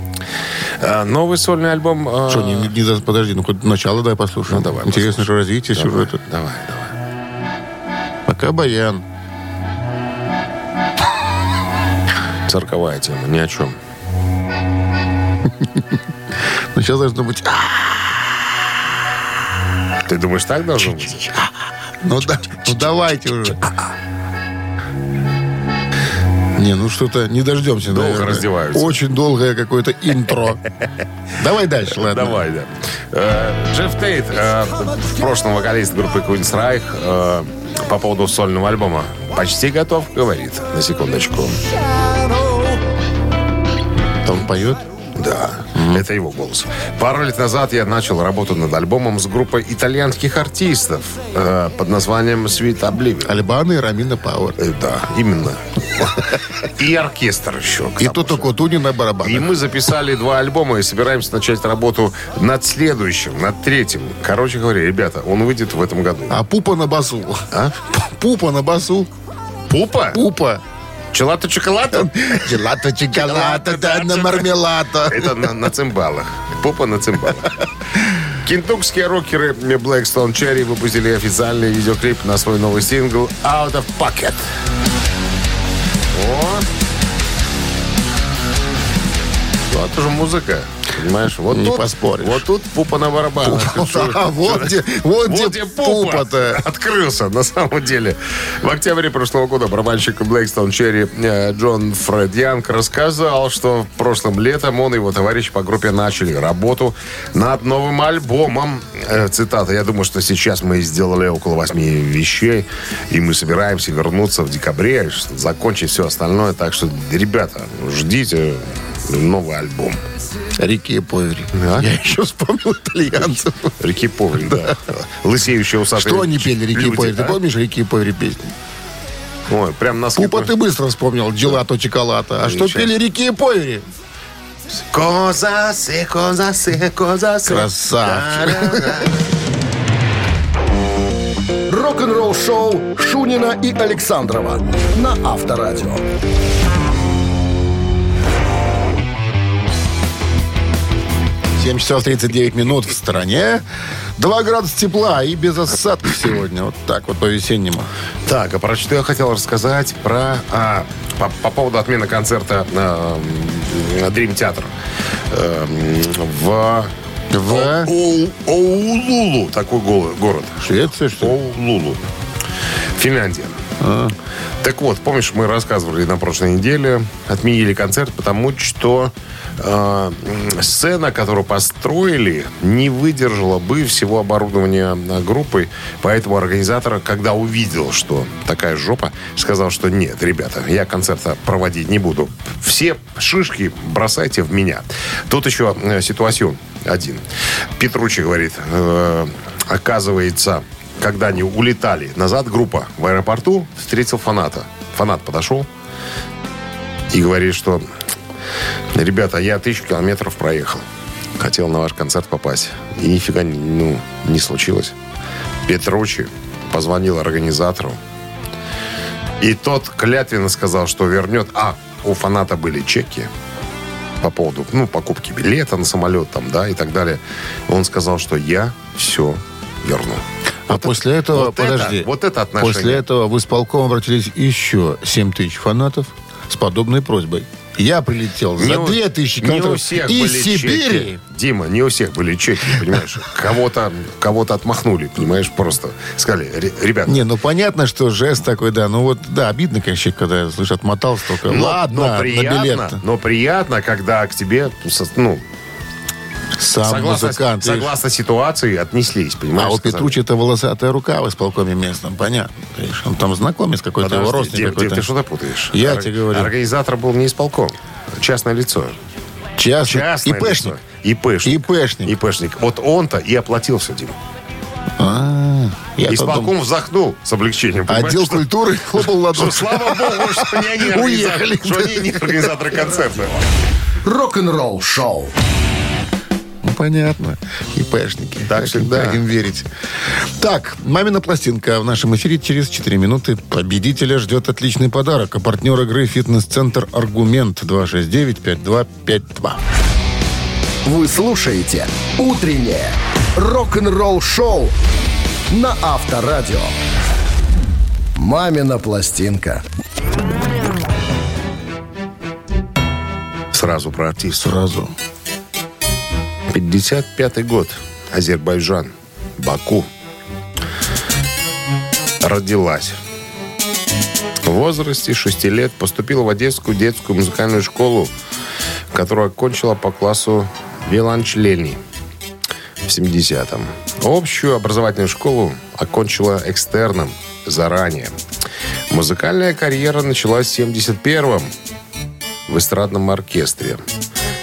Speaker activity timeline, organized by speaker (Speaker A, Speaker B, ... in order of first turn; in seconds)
Speaker A: 0.8-2.7, 4.5-6.9, 12.5-13.8, 20.1-21.2, 22.5-22.9, 27.9-29.0, 32.0-41.6, 45.2-53.4, 54.6-58.5, 59.2-66.4, 67.5-67.8, 69.7-70.2, 71.1-74.5, 75.1-77.5, 78.4-84.4, 86.1-86.7, 89.7-120.0, 121.5-121.9, 123.8-127.4, 129.5-130.5, 132.4-132.9, 134.7-139.1, 158.3-164.7, 165.3-166.9, 167.4-170.7, 171.2-172.0, 172.9-173.6, 174.6-197.2, 197.8-205.7, 207.1-207.8, 208.9-210.8, 211.4-214.9, 215.7-218.0, 219.4-223.3, 224.2-233.0, 238.6-247.2, 251.5-255.4, 256.8-260.2, 264.0-268.9, 269.9-274.2, 276.1-278.4, 279.0-283.4, 288.5-289.2, 313.5-314.5, 316.5-319.9, 322.2-323.0, 324.4-328.1, 328.9-331.8, 332.9-338.1, 338.9-341.5, 342.5-343.8
Speaker B: 2.3-6.2, 8.3-9.1, 15.6-16.0, 16.7-18.2, 20.8-21.5, 22.0-23.6, 26.6-30.6, 31.4-32.4, 44.3-44.9, 45.8-46.0, 53.2-54.6, 58.0-59.5, 66.3-69.1, 70.1-70.6, 71.9-75.5, 91.5-92.5, 93.4-96.6, 120.6-123.8, 124.5-124.8, 126.0-128.5, 130.2-133.8, 137.4-139.1, 151.6-153.6, 154.2-157.9, 167.3-167.9, 170.6-171.4, 173.8-174.2, 230.7-241.2, 247.1-253.0, 256.6-257.9, 259.6-265.1, 265.7-266.5, 269.6-270.8, 271.4-272.1, 275.0-276.5, 277.9-282.7, 286.6-289.7, 290.2-299.6, 314.4-314.9
Speaker C: 141.7-146.0, 282.9-283.3, 284.0-285.3, 300.9-304.8, 305.5-306.8, 308.2-309.6